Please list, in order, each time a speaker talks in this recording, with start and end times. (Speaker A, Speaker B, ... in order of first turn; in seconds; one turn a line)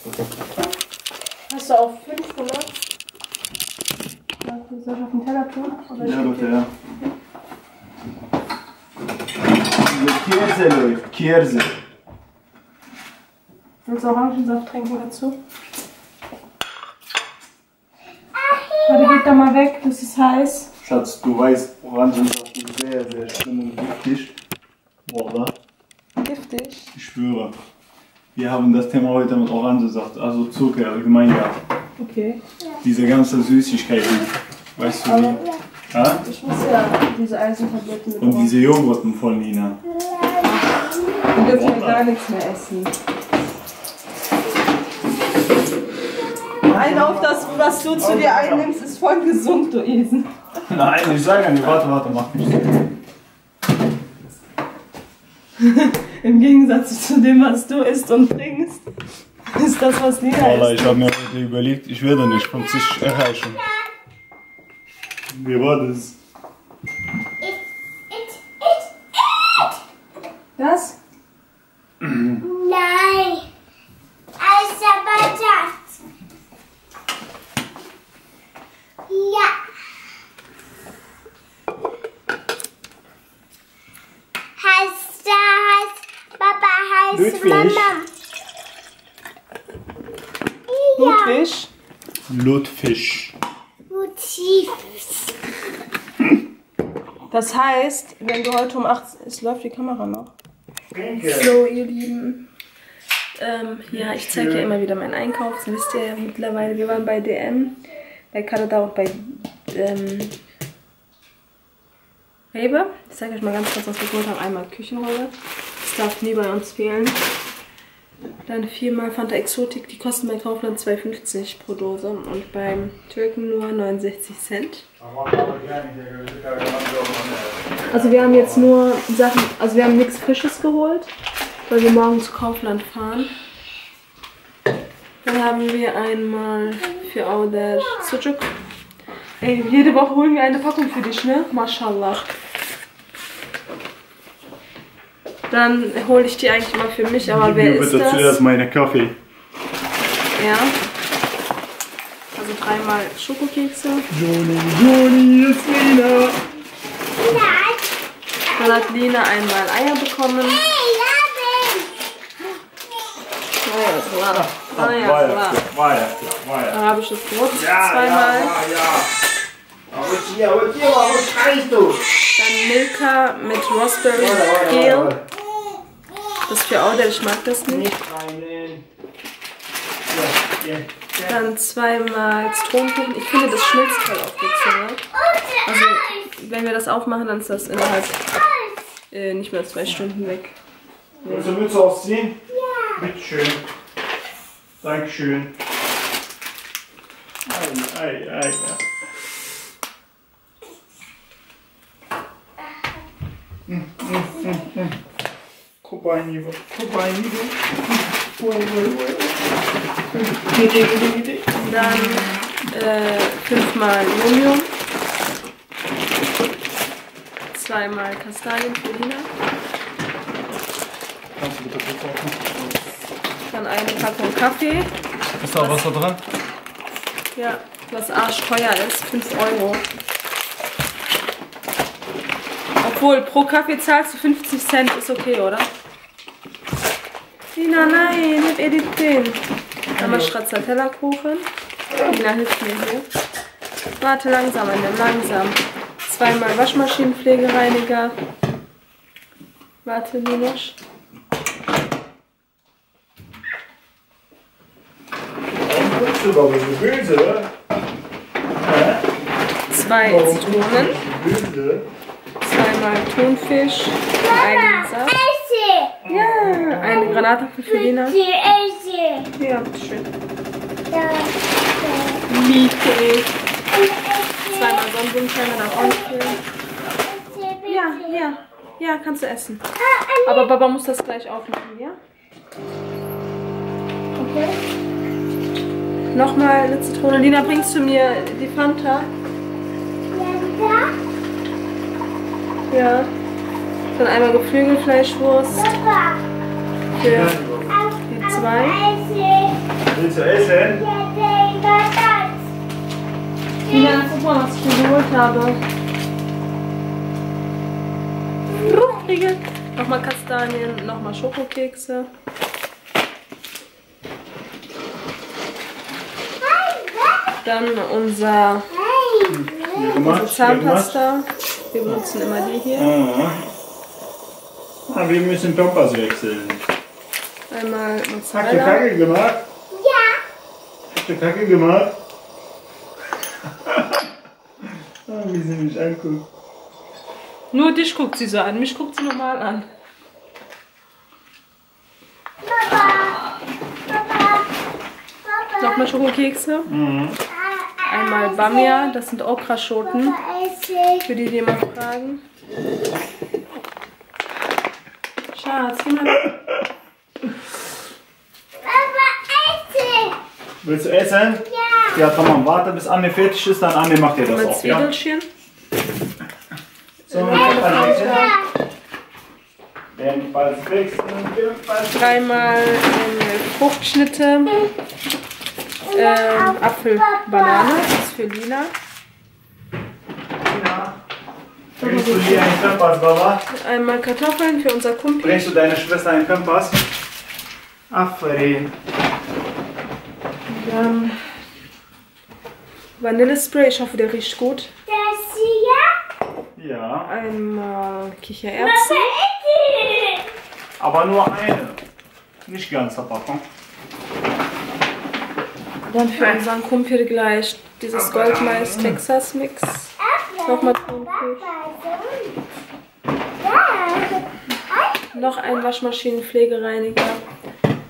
Speaker A: 1.5-2.7
Speaker A: 4.4-6.6
Speaker B: 6.0-6.7
Speaker B: 9.8-11.8
Speaker A: 13.8-15.4
Speaker C: 18.4-19.3
Speaker A: 18.9-20.7
Speaker B: 20.8-24.3
Speaker B: 25.1-25.5
Speaker A: 26.2-26.9
Speaker B: 26.9-27.6
Speaker B: 28.4-31.6
Speaker A: 32.0-32.4
Speaker B: 32.8-35.4
Speaker A: 35.0-35.4
Speaker B: 35.9-36.2
Speaker A: 36.2-38.6
Speaker B: 38.2-39.8
Speaker C: 39.9-41.3
Speaker A: 41.3-42.9
Speaker B: 41.4-42.1
Speaker B: 46.6-48.7
Speaker A: 46.7-50.3
Speaker B: 50.7-52.9
Speaker A: 55.6-58.8
Speaker A: 59.5-61.0
Speaker B: 60.4-63.6
Speaker C: 62.5-63.9
Speaker B: 65.3-66.2
Speaker C: 67.4-69.8
Speaker A: 70.6-71.0
Speaker B: 72.0-72.4
Speaker C: 72.4-73.5
Speaker C: 74.4-75.9
Speaker C: 79.1-79.6
Speaker C: 84.6-88.1
Speaker B: 87.1-87.9
Speaker C: 90.7-91.4
Speaker A: 91.0-91.7
Speaker B: 92.3-93.3
Speaker C: 93.9-95.1
Speaker A: 97.3-100.3
Speaker B: 100.9-101.5
Speaker A: 101.2-102.5
Speaker A: 103.4-107.8
Speaker B: 103.9-104.7
Speaker A: 108.3-110.4
Speaker A: 112.5-117.2
Speaker A: 118.5-124.9
Speaker B: 125.0-128.7
Speaker A: 127.9-131.1
Speaker A: 131.7-133.3
Speaker A: 135.2-138.5
Speaker A: 139.4-142.3
Speaker A: 145.5-148.4
Speaker B: 147.2-149.2
Speaker A: 150.4-150.8
Speaker A: 152.3-154.1
Speaker B: 154.1-156.4
Speaker C: 157.1-157.9
Speaker C: 158.6-158.9
Speaker A: 158.6-160.6
Speaker C: 160.6-161.9
Speaker A: 163.6-165.6
Speaker B: 164.3-166.8
Speaker A: 166.7-168.6
Speaker B: 167.5-169.1
Speaker B: 169.9-172.1
Speaker A: 172.4-175.2
Speaker B: 174.1-175.2
Speaker A: 176.5-177.9
Speaker B: 177.7-178.8
Speaker B: 180.1-181.4
Speaker A: 181.3-185.0
Speaker C: 185.1-186.3
Speaker A: 185.7-188.2
Speaker C: 188.3-188.9
Speaker A: 189.1-190.6
Speaker A: 191.2-191.5
Speaker B: 191.2-192.4
Speaker C: 192.5-193.1
Speaker B: 193.0-193.6
Speaker B: 194.8-195.5
Speaker B: 197.5-198.8
Speaker B: 203.7-205.0
Speaker B: 205.8-207.6
Speaker B: 208.4-209.0
Speaker A: 208.4-209.3
Speaker B: 210.2-212.4
Speaker A: 211.5-214.7
Speaker A: 217.5-219.3
Speaker B: 221.4-222.6
Speaker A: 223.5-224.9
Speaker B: 225.4-226.2
Speaker A: 225.5-225.8
Speaker A: 227.3-229.8
Speaker A: 232.8-235.7
Speaker A: 237.6-239.4
Speaker B: 240.0-240.3
Speaker A: 240.0-241.5
Speaker A: 242.0-243.1
Speaker A: 244.0-248.2
Speaker A: 249.8-250.8
Speaker B: 255.6-257.5
Speaker B: 258.6-259.1
Speaker B: 259.7-261.9
Speaker A: 259.7-261.0
Speaker A: 262.4-265.2
Speaker C: 264.2-266.0
Speaker B: 266.1-267.0
Speaker A: 266.1-268.2
Speaker C: 266.9-269.3
Speaker A: 269.4-270.1
Speaker C: 270.9-272.2
Speaker A: 272.3-273.3
Speaker C: 273.7-274.9
Speaker A: 274.5-276.4
Speaker C: 275.6-276.4
Speaker C: 277.0-278.2
Speaker A: 277.6-279.6
Speaker C: 279.8-280.5
Speaker A: 280.2-282.0
Speaker A: 284.2-284.5
Speaker A: 286.1-289.1
Speaker C: 290.1-290.9
Speaker A: 292.7-293.1
Speaker A: 294.0-295.7
Speaker C: 295.5-296.2
Speaker B: 296.9-297.8
Speaker A: 297.0-297.4
Speaker C: 297.7-299.6
Speaker A: 298.1-298.8
Speaker B: 299.9-300.9
Speaker C: 300.6-302.4
Speaker A: 303.7-305.6
Speaker C: 303.7-304.0
Speaker A: 308.5-312.1
Speaker C: 308.7-309.0
Speaker C: 316.4-317.3
Speaker A: 317.4-318.7
Speaker C: 318.7-319.9
Speaker B: 319.3-321.0
Speaker A: 319.9-322.9
Speaker C: 322.2-322.5
Speaker B: 322.8-323.4
Speaker B: 324.9-326.6
Speaker A: 327.5-328.9
Speaker B: 328.3-329.5
Speaker C: 329.7-330.2
Speaker B: 330.9-331.9
Speaker B: 333.6-334.1
Speaker B: 335.1-336.3
Speaker A: 337.5-339.7
Speaker C: 342.4-343.4
Speaker C: 343.9-344.5
Speaker C: 345.2-345.9
Speaker A: 345.6-346.7
Speaker B: 346.7-347.2
Speaker C: 347.3-349.0
Speaker A: 347.9-350.2
Speaker C: 349.8-351.1
Speaker A: 351.0-352.2
Speaker A: 355.3-356.3
Speaker C: 358.6-360.2
Speaker B: 360.6-364.9
Speaker C: 361.4-362.0
Speaker A: 364.3-365.3
Speaker A: 367.0-368.4
Speaker B: 367.1-368.3
Speaker C: 367.5-368.5
Speaker B: 369.9-372.5
Speaker A: 371.9-374.6
Speaker C: 375.9-377.9
Speaker A: 375.9-378.7
Speaker B: 380.4-381.0
Speaker B: 381.8-383.4
Speaker A: 381.8-382.6
Speaker A: 383.5-385.5
Speaker B: 385.2-386.8
Speaker B: 387.9-388.7
Speaker A: 390.5-391.2
Speaker A: 393.0-394.7
Speaker C: 394.9-395.9
Speaker B: 396.6-397.1
Speaker A: 397.1-399.1
Speaker C: 398.6-400.3
Speaker B: 400.8-401.8
Speaker B: 402.4-403.4
Speaker A: 405.9-409.9
Speaker B: 407.9-409.0
Speaker C: 410.0-412.4
Speaker A: 410.5-411.5
Speaker C: 413.4-415.5
Speaker A: 415.1-417.2